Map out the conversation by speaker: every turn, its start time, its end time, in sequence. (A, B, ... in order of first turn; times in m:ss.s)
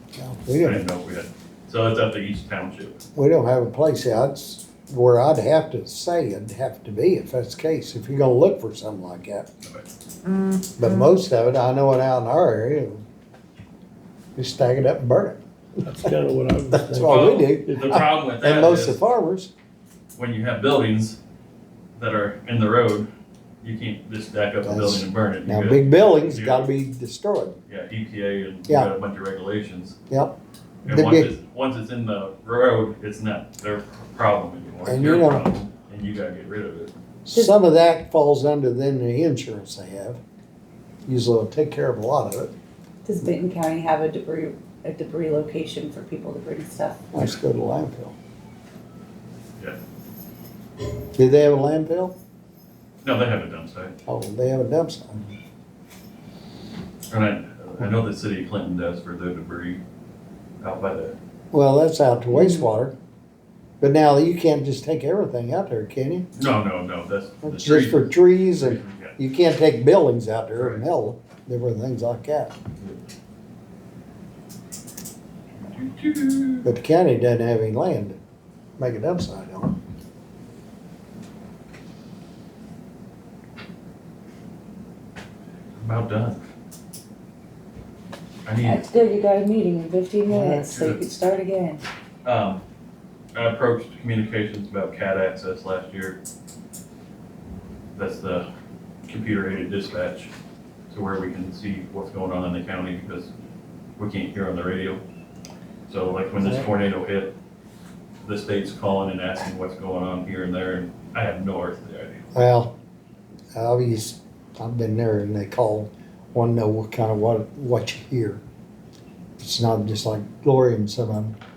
0:00.2-0:00.8 A
0:00.6-0:03.0 B
0:03.2-0:09.5 A
0:10.8-0:13.0 A
0:14.4-0:15.4 A
0:15.8-0:18.0 C
0:16.7-0:19.5 A
0:17.0-0:19.0 B
0:20.2-0:21.2 B
0:22.0-0:23.1 B
0:23.6-0:26.6 B
0:24.6-0:27.6 A
0:27.7-0:30.0 B
0:30.1-0:31.3 A
0:30.8-0:36.9 B
0:34.8-0:35.4 A
0:37.2-0:40.2 A
0:41.0-0:42.5 A
0:43.0-0:47.1 D
0:47.1-0:48.1 A
0:51.2-0:52.1 A
0:53.0-0:53.9 B
0:54.1-0:55.3 A
0:57.1-0:59.8 B
1:00.6-1:01.2 B
1:01.5-1:02.9 A
1:03.8-1:06.2 A
1:06.3-1:09.2 B
1:07.4-1:12.5 A
1:10.5-1:10.8 B
1:12.8-1:13.0 B
1:15.6-1:16.7 B
1:16.6-1:18.2 A
1:18.8-1:19.7 A
1:25.8-1:26.4 B
1:28.4-1:28.9 B
1:28.6-1:31.8 D
1:30.3-1:30.6 A
1:30.4-1:31.1 B
1:32.2-1:32.6 B
1:33.3-1:36.2 B
1:38.0-1:38.4 B
1:39.1-1:40.3 B
1:40.9-1:43.3 B
1:44.0-1:45.0 B
1:45.9-1:47.3 B
1:48.2-1:52.3 B
1:52.3-1:52.7 A
1:53.5-1:58.4 A
1:59.4-2:01.3 A